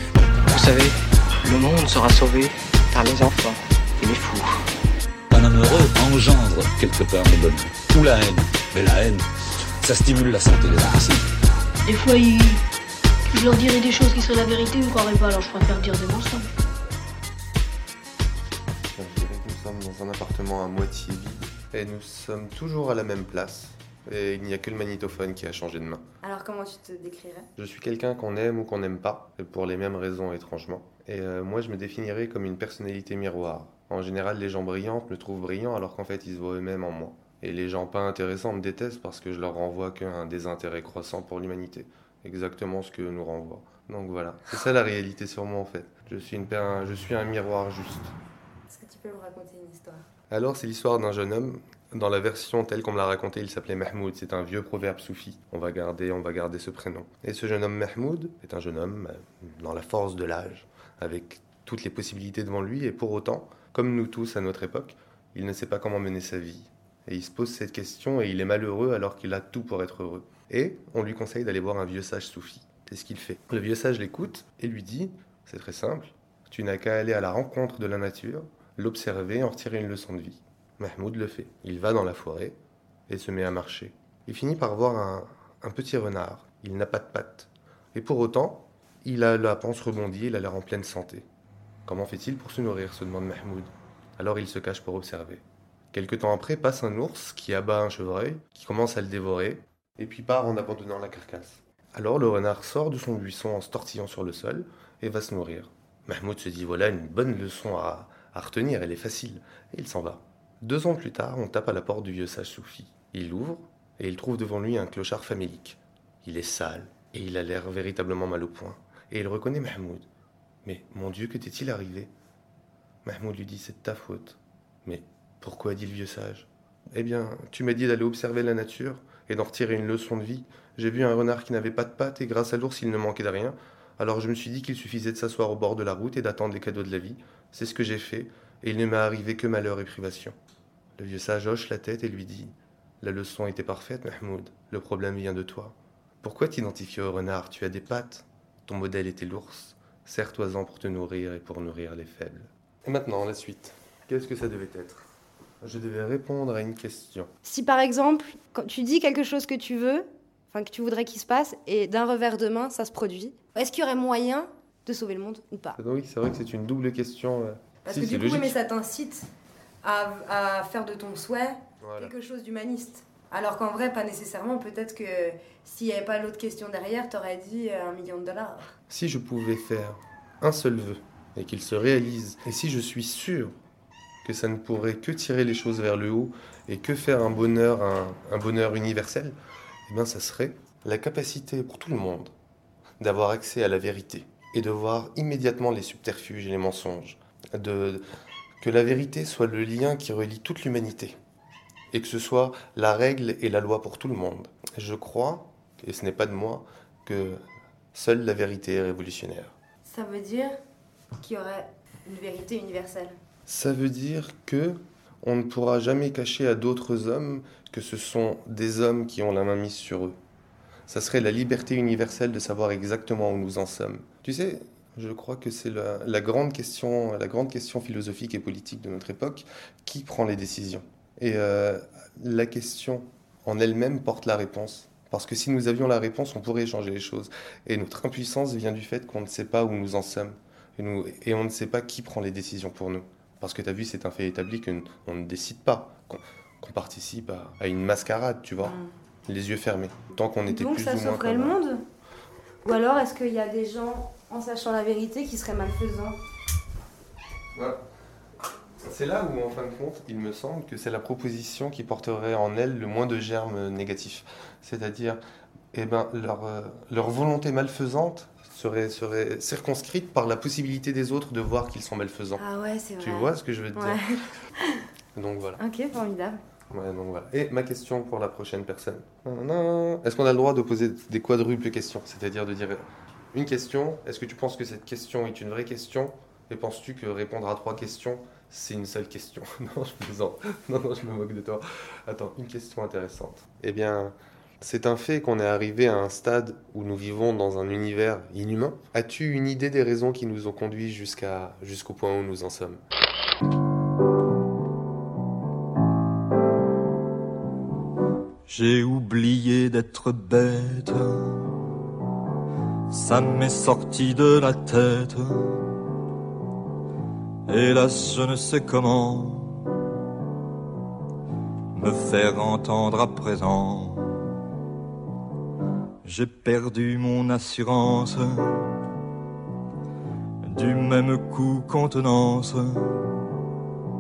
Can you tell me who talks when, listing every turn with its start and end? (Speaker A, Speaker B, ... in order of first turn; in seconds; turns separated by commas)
Speaker A: 0.5-4.6, Speaker B: 5.3-9.3, Speaker B: 9.8-11.3, Speaker C: 11.9-12.6, Speaker C: 13.3-16.5, Speaker D: 18.9-26.0, Speaker E: 26.2-27.5, Speaker D: 27.6-48.1, Speaker E: 48.7-50.0, Speaker D: 50.3-82.6, Speaker D: 83.1-91.3, Speaker D: 91.9-120.1, Speaker D: 120.7-122.1, Speaker D: 123.0-140.3, Speaker D: 141.0-155.1, Speaker D: 155.6-157.3, Speaker E: 157.4-165.8, Speaker D: 165.8-168.6, Speaker E: 167.8-169.3, Speaker E: 169.8-178.7, Speaker D: 171.8-172.1, Speaker D: 178.9-183.6, Speaker D: 184.2-192.3, Speaker D: 193.0-198.0, Speaker D: 198.6-201.2, Speaker D: 201.9-207.4, Speaker D: 207.9-209.5, Speaker E: 209.8-210.6, Speaker E: 211.2-213.2, Speaker D: 213.5-220.2, Speaker D: 220.9-251.6, Speaker E: 248.6-248.9, Speaker E: 250.5-251.8, Speaker E: 252.7-256.2, Speaker D: 257.6-257.8, Speaker D: 258.9-265.2, Speaker D: 265.7-272.4, Speaker E: 272.4-274.9, Speaker D: 273.0-274.0, Speaker D: 275.1-275.6, Speaker E: 275.6-276.4, Speaker D: 276.7-302.8, Speaker F: 308.5-311.6, Speaker F: 312.9-315.8, Speaker F: 317.5-319.6, Speaker F: 321.7-324.2, Speaker F: 326.0-328.8, Speaker F: 330.4-333.2